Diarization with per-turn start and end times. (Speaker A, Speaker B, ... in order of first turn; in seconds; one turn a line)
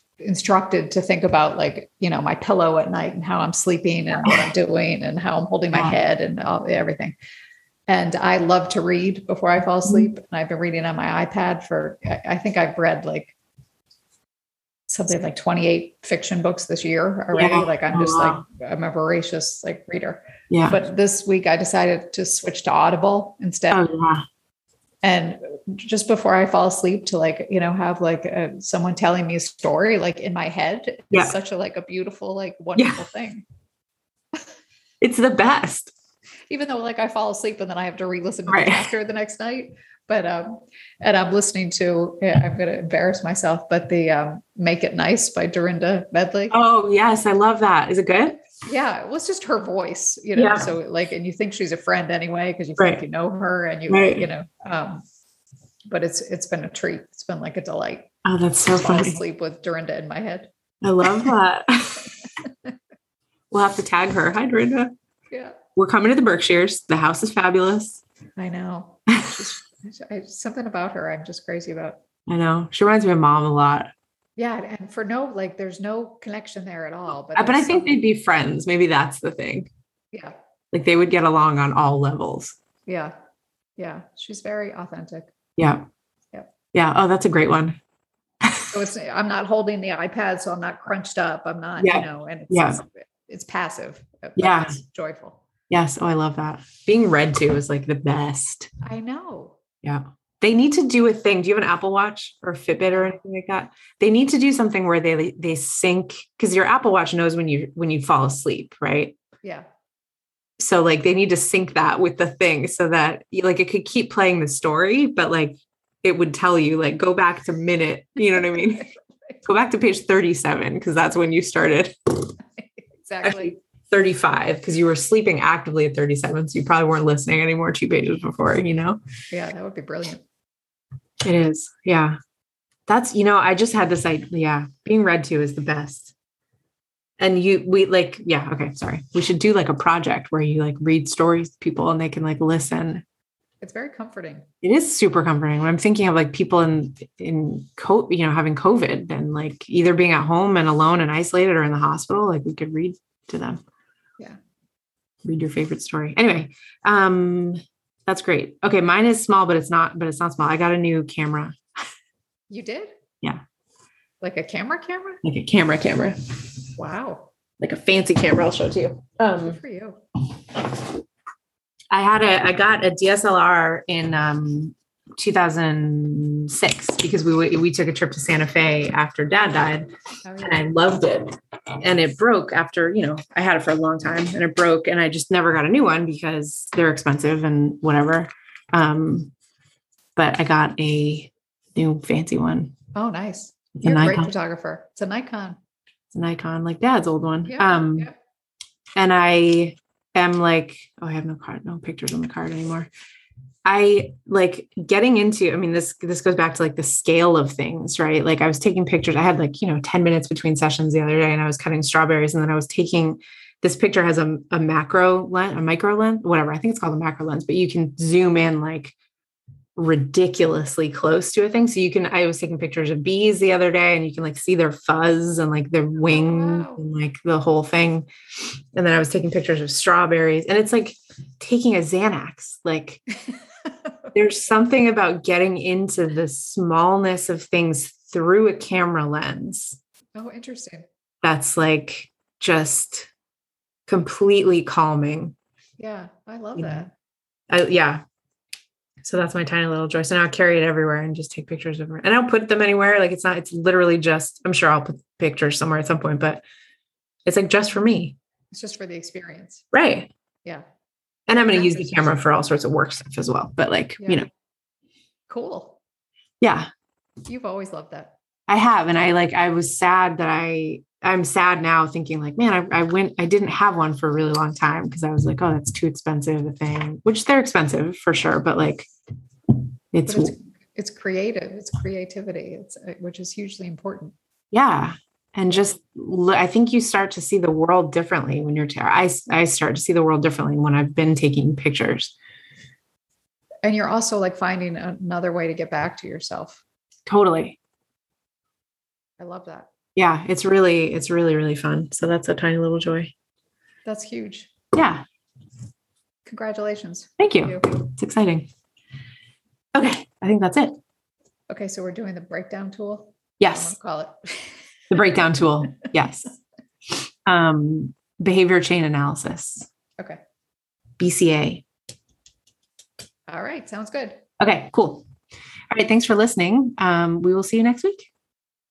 Speaker A: 0.2-7.2
Speaker A: 7.9-13.3
Speaker A: 14.9-23.8
Speaker B: 17.3-18.4
Speaker B: 20.5-20.8
Speaker B: 23.7-24.3
Speaker A: 25.0-33.5
Speaker B: 32.8-33.0
Speaker B: 35.0-35.9
Speaker A: 36.5-46.6
Speaker B: 38.5-38.9
Speaker B: 46.5-48.4
Speaker A: 48.7-55.0
Speaker B: 50.4-50.7
Speaker B: 53.9-54.3
Speaker A: 55.9-58.1
Speaker B: 58.2-59.2
Speaker A: 58.7-60.5
Speaker B: 60.8-62.1
Speaker B: 63.5-64.9
Speaker A: 65.3-65.6
Speaker B: 65.8-68.0
Speaker A: 68.4-72.0
Speaker B: 69.1-69.3
Speaker B: 72.3-73.9
Speaker A: 74.4-78.0
Speaker B: 77.4-79.7
Speaker B: 80.7-82.6
Speaker A: 82.9-83.2
Speaker A: 83.8-85.3
Speaker B: 85.6-85.8
Speaker B: 86.7-87.8
Speaker B: 88.4-88.7
Speaker A: 88.7-95.4
Speaker B: 91.8-92.8
Speaker B: 94.4-94.8
Speaker B: 95.7-98.7
Speaker A: 98.8-99.6
Speaker B: 99.8-109.2
Speaker A: 102.9-103.2
Speaker B: 110.6-118.9
Speaker B: 119.5-122.3
Speaker A: 122.6-123.5
Speaker B: 123.2-129.0
Speaker A: 129.3-130.2
Speaker B: 131.2-132.2
Speaker B: 132.9-136.1
Speaker B: 137.2-143.0
Speaker A: 143.6-144.5
Speaker B: 144.6-153.6
Speaker B: 155.2-161.6
Speaker A: 162.5-162.9
Speaker A: 164.2-165.2
Speaker B: 165.2-166.2
Speaker A: 166.8-167.3
Speaker B: 167.6-169.6
Speaker A: 169.4-170.0
Speaker B: 170.6-170.9
Speaker B: 171.9-179.9
Speaker A: 180.2-180.7
Speaker B: 180.4-189.3
Speaker B: 190.2-192.7
Speaker A: 192.9-195.6
Speaker B: 193.8-194.3
Speaker B: 196.1-198.1
Speaker A: 197.5-198.1
Speaker B: 199.0-202.9
Speaker B: 203.7-218.9
Speaker B: 219.8-228.1
Speaker A: 226.1-226.8
Speaker B: 228.7-233.0
Speaker B: 234.1-239.8
Speaker A: 240.2-240.9
Speaker B: 241.2-243.1
Speaker B: 243.9-245.3
Speaker A: 245.8-246.9
Speaker B: 246.6-246.8
Speaker B: 247.5-248.0
Speaker B: 249.0-256.4
Speaker B: 257.3-258.2
Speaker A: 258.5-259.6
Speaker B: 259.7-260.1
Speaker B: 261.3-264.3
Speaker A: 261.5-262.1
Speaker A: 264.0-264.3
Speaker A: 265.3-265.8
Speaker B: 266.4-266.7
Speaker A: 267.3-268.1
Speaker B: 268.5-278.9
Speaker B: 279.9-280.3
Speaker A: 280.1-284.1
Speaker B: 284.5-292.1
Speaker A: 293.6-296.6
Speaker B: 297.1-297.6
Speaker A: 299.2-299.7
Speaker B: 300.0-303.1
Speaker A: 303.9-304.5
Speaker B: 304.7-305.0
Speaker A: 306.3-307.7
Speaker B: 307.2-308.5
Speaker B: 309.7-310.8
Speaker A: 311.5-314.4
Speaker B: 313.4-313.8
Speaker B: 314.9-316.3
Speaker B: 317.3-319.7
Speaker B: 321.0-321.6
Speaker A: 323.3-324.2
Speaker B: 324.4-325.1
Speaker B: 325.7-328.1